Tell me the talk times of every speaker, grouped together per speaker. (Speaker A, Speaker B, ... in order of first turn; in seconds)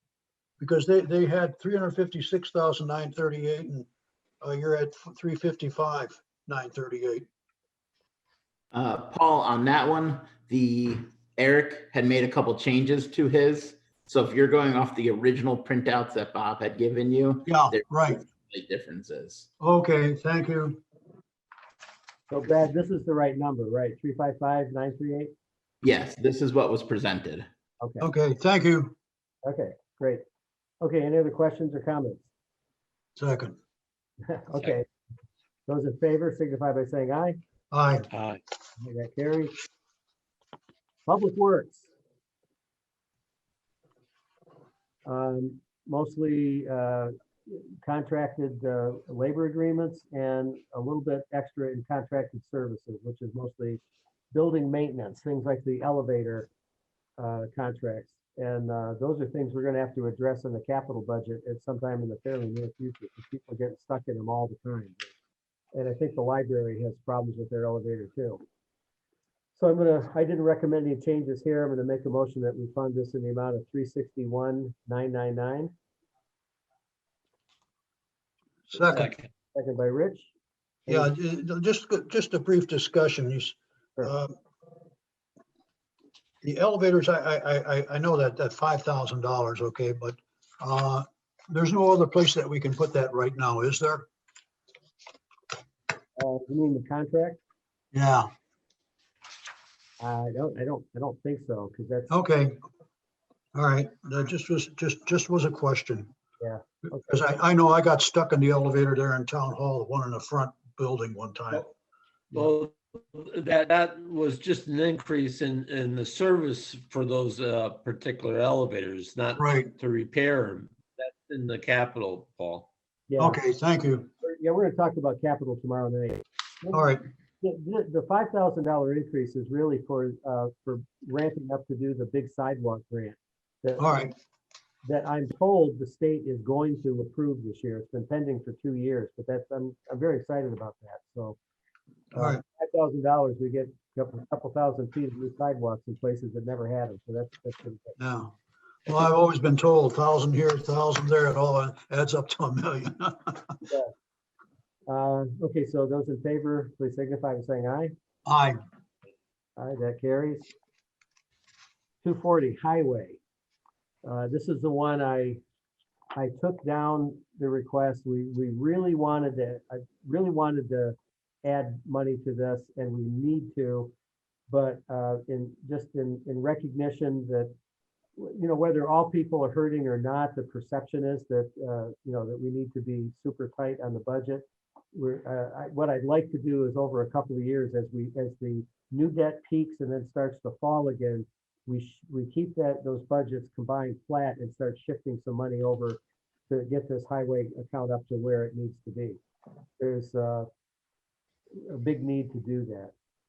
Speaker A: 0.6-3.9, 4.4-7.3, 17.4-18.2, 19.6-20.8, 28.0-28.9, 33.2-33.5, 37.7-38.1, 78.7-79.1, 80.9-84.3, 86.4-94.1, 97.9-98.3, 102.1-102.6, 103.5-106.1, 106.8-111.7, 119.4-119.7, 123.2-124.1, 126.7-127.0, 133.8-134.1, 142.2-142.4, 148.0-148.3, 148.9-153.6, 158.2-158.6
Speaker B: 8.7-19.5, 25.8-27.4
Speaker C: 22.3-25.3, 27.8-28.1, 29.4-30.2, 30.8-32.3, 34.2-34.9, 35.7-37.4, 38.8-39.5, 41.0-41.9, 45.0-53.8, 54.3-56.5, 57.2-65.1, 65.7-68.4, 69.6-75.7, 78.9-80.3, 96.2-97.4, 100.0-102.1, 106.4-107.2, 123.1-123.4, 124.2-134.0, 134.8-141.4, 142.1-148.0, 154.9-157.9, 159.6-160.5, 162.0-163.2, 164.0-165.4, 166.1-173.9, 174.5-177.5, 178.2-199.2, 199.8-200.5, 201.6-202.9
Speaker D: 38.1-38.4, 78.9-79.3, 112.3-122.7